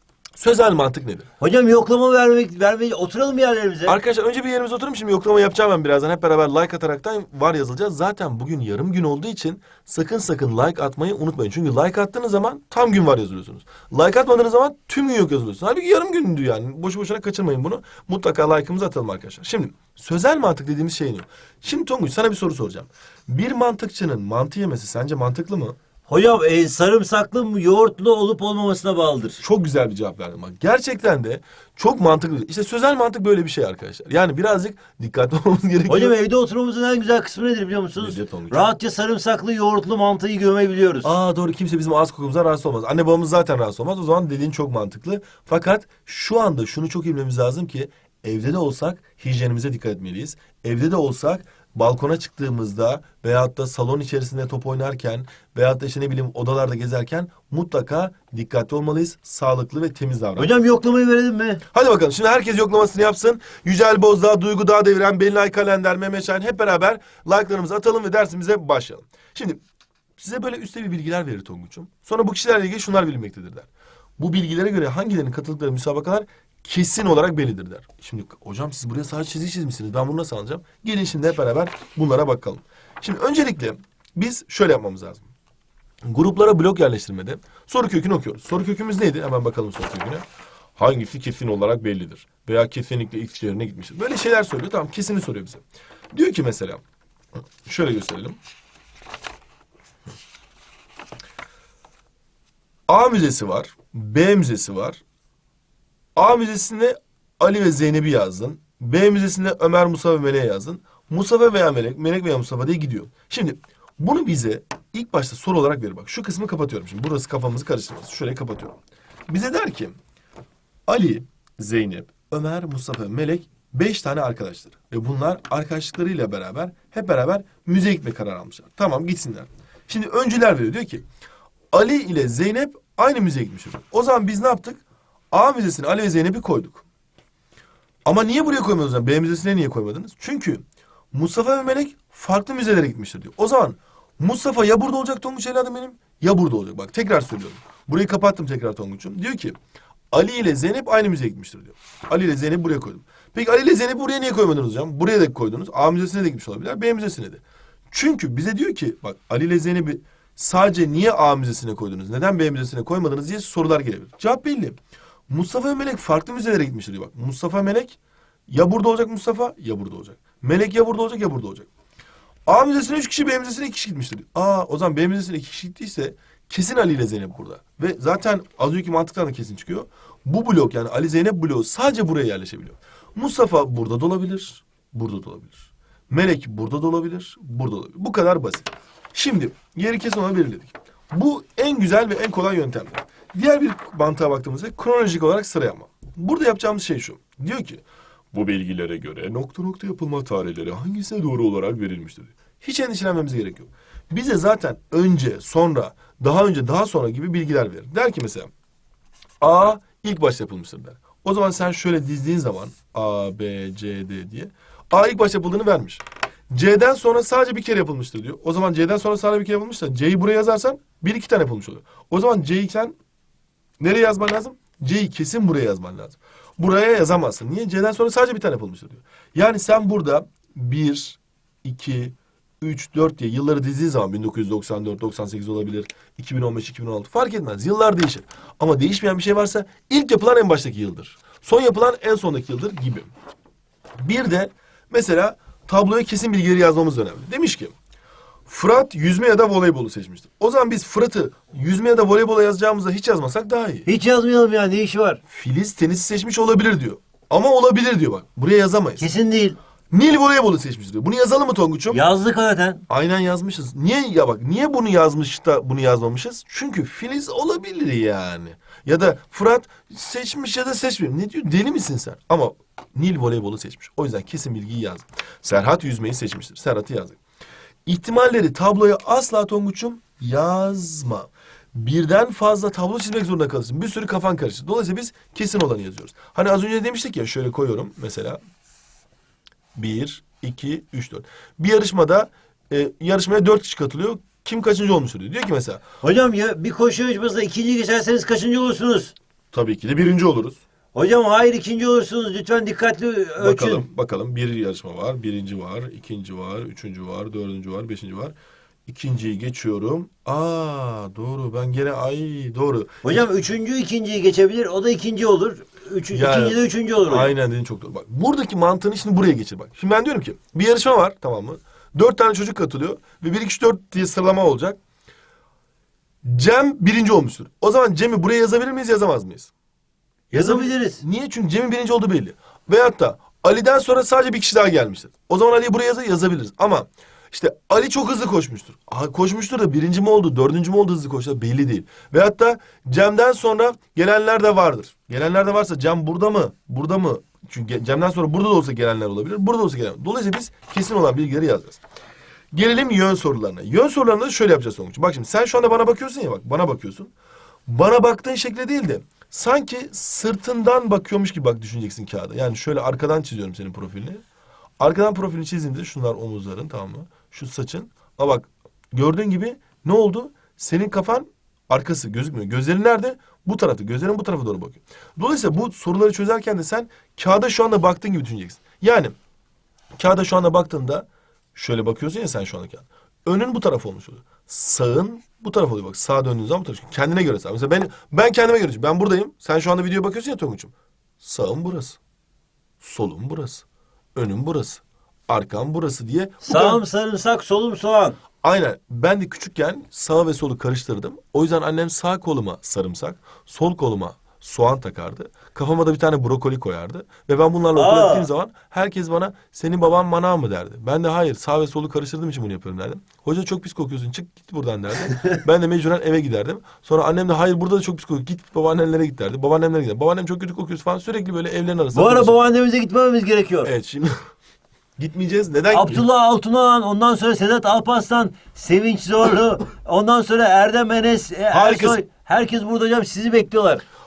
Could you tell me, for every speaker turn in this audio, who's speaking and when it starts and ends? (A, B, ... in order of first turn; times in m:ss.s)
0:00.4-0:01.3 A
0:01.4-0:04.0 B
0:03.9-0:25.8 A
0:26.1-0:29.4 B
0:29.4-0:36.1 A
0:35.9-0:41.1 B
0:38.0-0:38.7 A
0:41.0-1:00.5 A
1:00.4-1:01.6 B
1:01.7-1:09.6 A
1:10.2-1:25.3 A
1:26.0-1:30.2 A
1:30.8-1:35.6 A
1:36.1-1:36.8 A
1:37.6-1:38.4 A
1:42.9-1:45.0 A
1:46.2-1:58.8 A
1:59.3-2:00.0 A
2:00.9-2:11.0 A
2:11.7-2:16.8 A
2:18.0-2:29.6 A
2:30.1-2:44.8 A
2:45.3-2:51.7 A
2:52.4-3:28.5 A
3:29.4-3:43.0 A
3:43.8-4:03.1 A
4:04.0-4:07.7 A
4:08.4-4:13.9 A
4:13.8-4:15.2 B
4:15.3-4:19.1 A
4:19.0-4:19.6 B
4:19.9-4:22.0 A
4:21.9-4:22.8 B
4:22.9-4:37.2 A
4:37.8-4:48.4 A
4:49.7-4:55.8 A
4:56.0-4:59.1 B
4:59.5-5:00.6 A
5:00.9-5:03.8 B
5:03.4-5:08.4 A
5:08.9-5:13.3 A
5:13.0-5:17.3 B
5:16.1-5:24.8 A
5:26.2-5:29.5 A
5:30.3-5:31.0 B
5:30.3-5:51.8 A
5:52.5-5:57.1 A
5:57.7-6:04.2 A
6:04.8-6:19.1 A
6:20.0-6:32.0 A
6:32.8-6:33.6 A
6:34.1-6:36.8 A
6:36.4-6:38.2 B
6:38.4-7:02.4 A
6:47.8-6:48.3 B
7:01.9-7:03.7 B
7:03.6-7:04.1 A
7:05.0-7:06.0 A
7:05.7-7:13.8 B
7:11.5-7:12.0 A